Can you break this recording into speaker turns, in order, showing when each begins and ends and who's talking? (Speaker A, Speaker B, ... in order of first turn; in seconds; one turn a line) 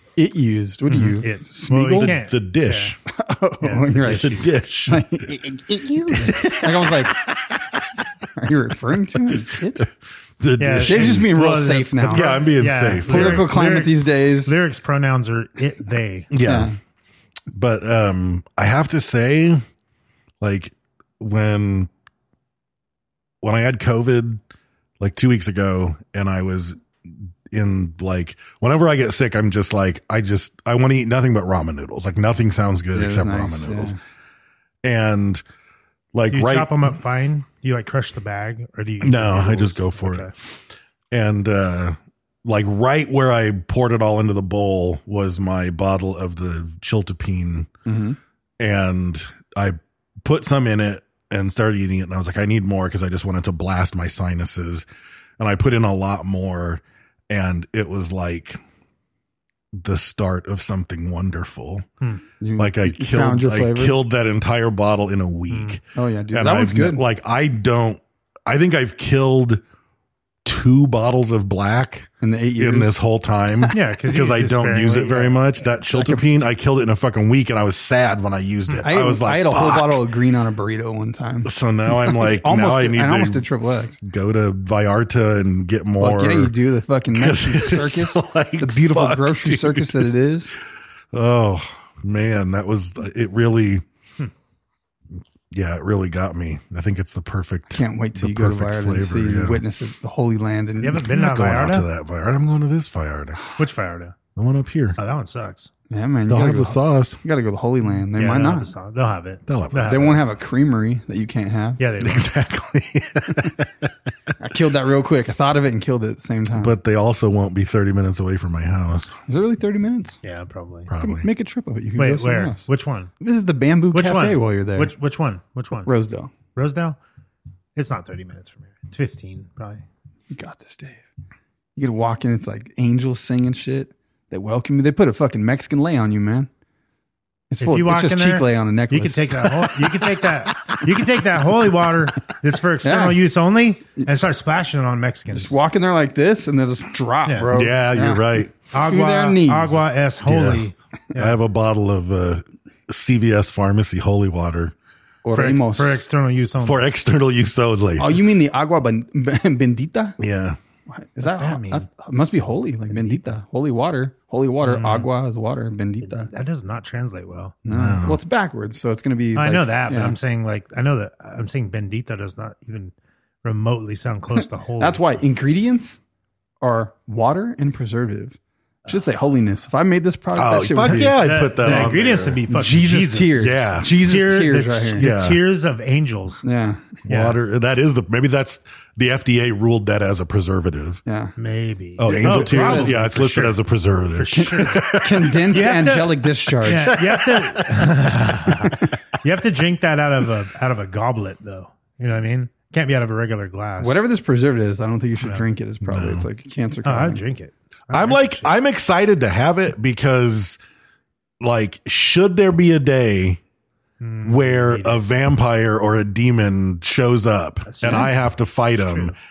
Speaker A: 0.2-2.1
Speaker B: 0.9-3.0
Speaker C: 1.9-3.0
Speaker A: 3.1-7.3
Speaker B: 3.6-4.2
Speaker C: 4.0-5.1
Speaker C: 6.1-7.8
Speaker A: 8.4-9.9
Speaker C: 10.4-11.4
Speaker B: 10.6-16.3
Speaker A: 10.8-12.4
Speaker C: 12.0-13.6
Speaker A: 13.0-14.6
Speaker C: 16.3-16.7
Speaker A: 16.4-16.8
Speaker C: 17.5-19.6
Speaker C: 20.4-21.9
Speaker C: 23.4-24.4
Speaker C: 25.0-26.8
Speaker C: 27.5-34.0
Speaker A: 32.9-34.0
Speaker C: 34.8-35.4
Speaker C: 36.1-36.9
Speaker B: 36.3-40.3
Speaker C: 39.0-40.6
Speaker C: 41.1-47.7
Speaker A: 47.9-48.2
Speaker C: 48.6-54.9
Speaker C: 55.4-58.6
Speaker C: 59.7-61.9
Speaker A: 62.4-64.0
Speaker C: 62.6-69.6
Speaker B: 65.5-65.8
Speaker A: 66.0-67.0
Speaker C: 70.5-80.1
Speaker A: 72.2-73.0
Speaker B: 73.7-75.6
Speaker A: 75.9-76.2
Speaker A: 78.8-81.5
Speaker C: 81.5-83.5
Speaker A: 82.1-84.0
Speaker C: 84.0-86.5
Speaker A: 86.0-90.5
Speaker C: 87.1-90.1
Speaker C: 91.1-93.8
Speaker C: 95.5-99.6
Speaker A: 97.7-101.1
Speaker B: 100.8-101.9
Speaker C: 101.0-103.4
Speaker B: 103.6-104.2
Speaker C: 104.4-105.0
Speaker B: 105.0-105.7
Speaker A: 105.9-108.7
Speaker C: 106.2-107.2
Speaker B: 108.1-110.2
Speaker C: 109.5-110.2
Speaker A: 109.8-111.8
Speaker B: 111.8-112.3
Speaker C: 112.0-113.9
Speaker A: 114.4-116.7
Speaker C: 116.5-119.1
Speaker A: 119.3-120.2
Speaker B: 120.2-120.9
Speaker C: 120.9-121.3
Speaker A: 121.0-122.7
Speaker B: 122.0-123.1
Speaker A: 123.2-124.9
Speaker B: 123.9-125.9
Speaker A: 125.9-126.3
Speaker B: 126.5-127.0
Speaker B: 127.8-129.8
Speaker A: 130.3-131.0
Speaker A: 131.8-136.5
Speaker A: 137.5-140.1
Speaker B: 137.6-145.5
Speaker A: 142.8-143.2
Speaker A: 145.3-149.8
Speaker B: 147.2-147.5
Speaker C: 147.5-148.6
Speaker B: 148.7-151.4
Speaker C: 150.2-154.7
Speaker A: 155.2-156.0
Speaker B: 155.3-156.9
Speaker C: 156.6-158.3
Speaker A: 158.0-160.2
Speaker C: 160.2-160.6
Speaker A: 160.9-166.3
Speaker B: 161.2-161.9
Speaker B: 162.9-163.3
Speaker B: 164.6-165.1
Speaker B: 166.0-167.6
Speaker A: 167.6-170.2
Speaker C: 167.7-168.2
Speaker B: 169.3-172.9
Speaker B: 173.4-175.0
Speaker A: 174.8-176.0
Speaker A: 176.6-185.1
Speaker C: 180.3-182.4
Speaker B: 180.9-186.4
Speaker C: 183.4-184.0
Speaker C: 184.9-185.4
Speaker A: 186.4-187.0
Speaker B: 187.1-187.4
Speaker C: 187.1-191.0
Speaker A: 191.1-191.3
Speaker B: 191.4-194.9
Speaker C: 192.0-195.4
Speaker A: 192.1-193.0
Speaker A: 194.4-197.0
Speaker B: 195.5-204.1
Speaker C: 196.7-197.8
Speaker C: 198.5-198.8
Speaker A: 203.8-207.2
Speaker B: 205.2-205.5
Speaker C: 205.8-206.3
Speaker B: 206.8-208.6
Speaker C: 207.9-210.6
Speaker C: 211.4-213.4
Speaker B: 214.0-215.0
Speaker C: 214.2-219.1
Speaker B: 217.7-218.1
Speaker B: 218.8-219.1